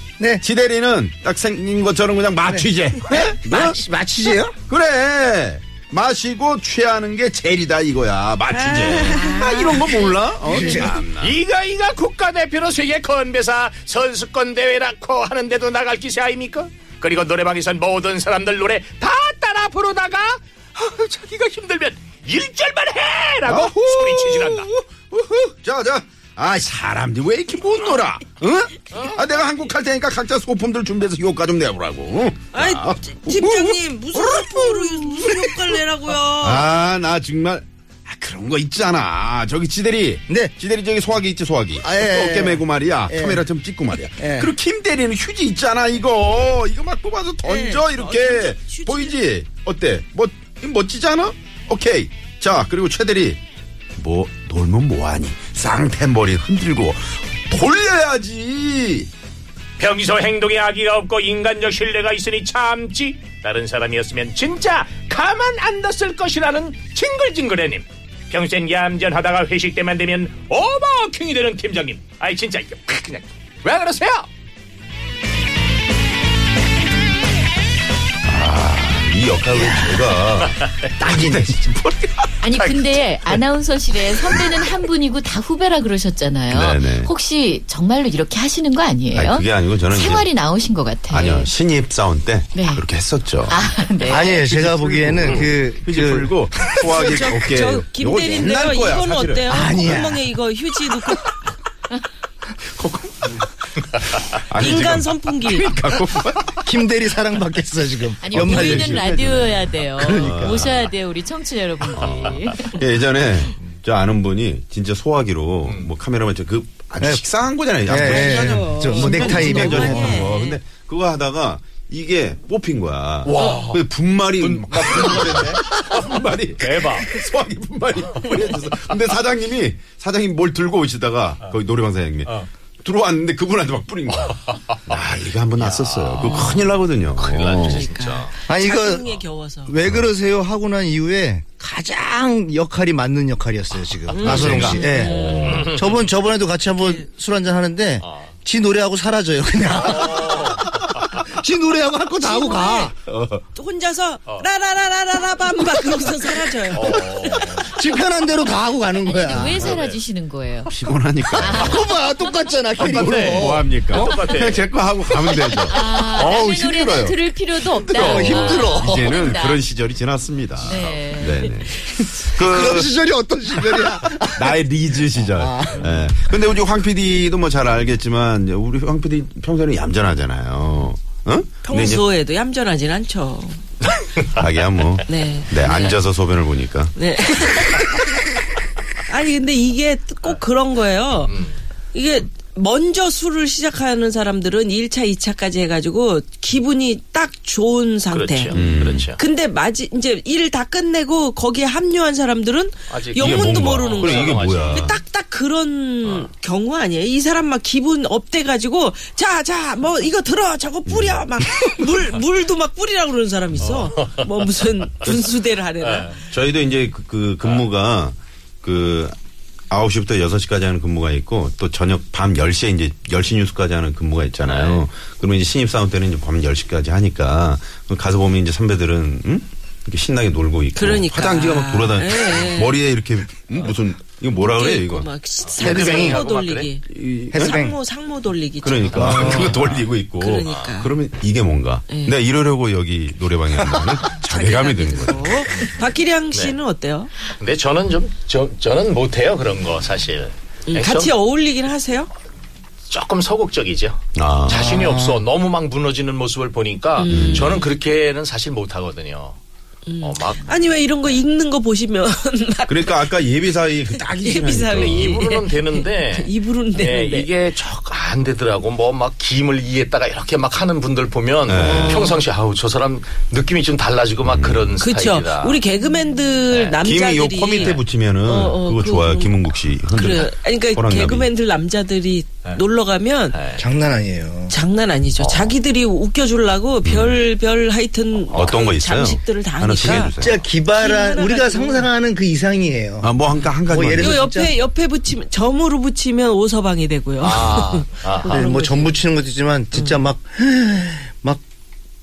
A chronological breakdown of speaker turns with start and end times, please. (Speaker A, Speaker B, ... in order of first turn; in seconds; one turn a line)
Speaker A: 0.4-3.8
Speaker B: 2.5-4.5
Speaker A: 4.7-11.4
Speaker C: 8.5-10.7
Speaker B: 10.4-11.0
Speaker D: 11.2-24.7
Speaker A: 23.4-35.2
Speaker C: 32.5-36.7
Speaker A: 36.4-53.4
Speaker B: 40.3-40.5
Speaker B: 41.8-43.4
Speaker B: 44.0-44.5
Speaker C: 47.4-49.2
Speaker A: 54.0-59.1
Speaker D: 59.8-74.3
Speaker A: 78.2-82.5
Speaker B: 79.5-80.2
Speaker D: 80.5-80.8
Speaker B: 81.0-81.4
Speaker E: 82.4-91.5
Speaker A: 86.5-87.1
Speaker A: 89.1-90.3
Speaker A: 91.1-93.6
Speaker E: 92.5-92.8
Speaker E: 93.4-94.5
Speaker B: 94.0-96.9
Speaker A: 94.4-99.5
Speaker C: 96.8-101.3
Speaker B: 99.5-100.3
Speaker A: 102.6-103.4
Speaker A: 104.3-106.6
Speaker C: 104.5-105.8
Speaker B: 106.6-110.7
Speaker E: 108.2-112.8
Speaker A: 108.3-109.0
Speaker A: 110.2-110.8
Speaker A: 112.0-137.9
Speaker D: 115.7-115.9
Speaker B: 117.0-117.2
Speaker B: 117.8-120.3
Speaker C: 118.0-120.6
Speaker D: 123.2-123.8
Speaker D: 124.4-126.0
Speaker D: 126.6-127.1
Speaker D: 128.4-128.8
Speaker D: 134.3-134.9
Speaker D: 135.6-138.3
Speaker C: 136.2-136.7
Speaker C: 137.6-139.9
Speaker B: 138.5-139.1
Speaker B: 139.7-152.9
Speaker C: 144.1-145.7
Speaker A: 144.2-145.6
Speaker D: 145.4-145.9
Speaker C: 146.7-147.1
Speaker D: 148.0-148.3
Speaker D: 149.8-150.6
Speaker C: 152.1-152.9
Speaker A: 153.1-153.4
Speaker C: 153.5-157.5
Speaker D: 156.7-157.7
Speaker B: 156.8-159.8
Speaker E: 159.1-160.7
Speaker A: 159.4-159.7
Speaker D: 159.5-160.0
Speaker A: 160.7-161.9
Speaker E: 161.3-162.4
Speaker B: 161.4-164.2
Speaker A: 162.8-167.2
Speaker D: 162.8-164.7
Speaker E: 165.5-169.6
Speaker B: 167.8-169.1
Speaker A: 167.9-172.9
Speaker E: 170.6-171.7
Speaker D: 170.7-170.9
Speaker B: 172.2-174.6
Speaker A: 173.6-182.0
Speaker B: 175.2-176.1
Speaker C: 181.6-183.6
Speaker A: 184.3-186.9
Speaker C: 185.1-185.9
Speaker C: 186.9-188.3
Speaker C: 189.1-191.4
Speaker D: 191.3-191.5
Speaker C: 191.9-216.2
Speaker D: 198.1-199.2
Speaker A: 198.5-199.1
Speaker D: 202.9-205.0
Speaker A: 203.2-205.0
Speaker A: 210.8-211.3
Speaker D: 213.6-214.2
Speaker D: 215.8-216.2
Speaker A: 216.3-219.2
Speaker A: 219.7-235.1
Speaker D: 224.4-224.8
Speaker C: 230.7-232.8
Speaker C: 234.4-239.6
Speaker D: 235.4-236.7
Speaker B: 235.6-236.2
Speaker A: 236.9-237.4
Speaker B: 237.3-237.8
Speaker A: 238.6-245.7
Speaker B: 238.9-239.5
Speaker C: 240.1-240.9
Speaker C: 241.9-242.2
Speaker C: 244.1-247.1
Speaker D: 246.3-246.6
Speaker D: 247.3-251.2
Speaker C: 250.7-252.1
Speaker D: 252.9-259.4
Speaker A: 254.1-254.8
Speaker B: 254.5-255.2
Speaker C: 256.9-257.7
Speaker A: 257.1-257.5
Speaker C: 259.9-263.1
Speaker D: 260.0-260.7
Speaker A: 262.7-265.3
Speaker C: 263.9-267.3
Speaker D: 264.7-275.7
Speaker A: 271.5-272.2
Speaker A: 274.2-274.8
Speaker C: 274.8-283.4
Speaker D: 276.5-276.8
Speaker A: 276.8-281.3
Speaker D: 277.5-277.8
Speaker D: 283.3-283.7
Speaker B: 283.6-284.5
Speaker C: 284.5-291.9
Speaker D: 285.2-285.6
Speaker A: 286.8-287.2
Speaker A: 288.3-290.4
Speaker B: 289.8-293.1
Speaker A: 293.0-294.2
Speaker B: 293.6-294.6
Speaker C: 293.8-299.0
Speaker D: 297.2-298.3
Speaker B: 298.3-301.4
Speaker C: 299.7-300.1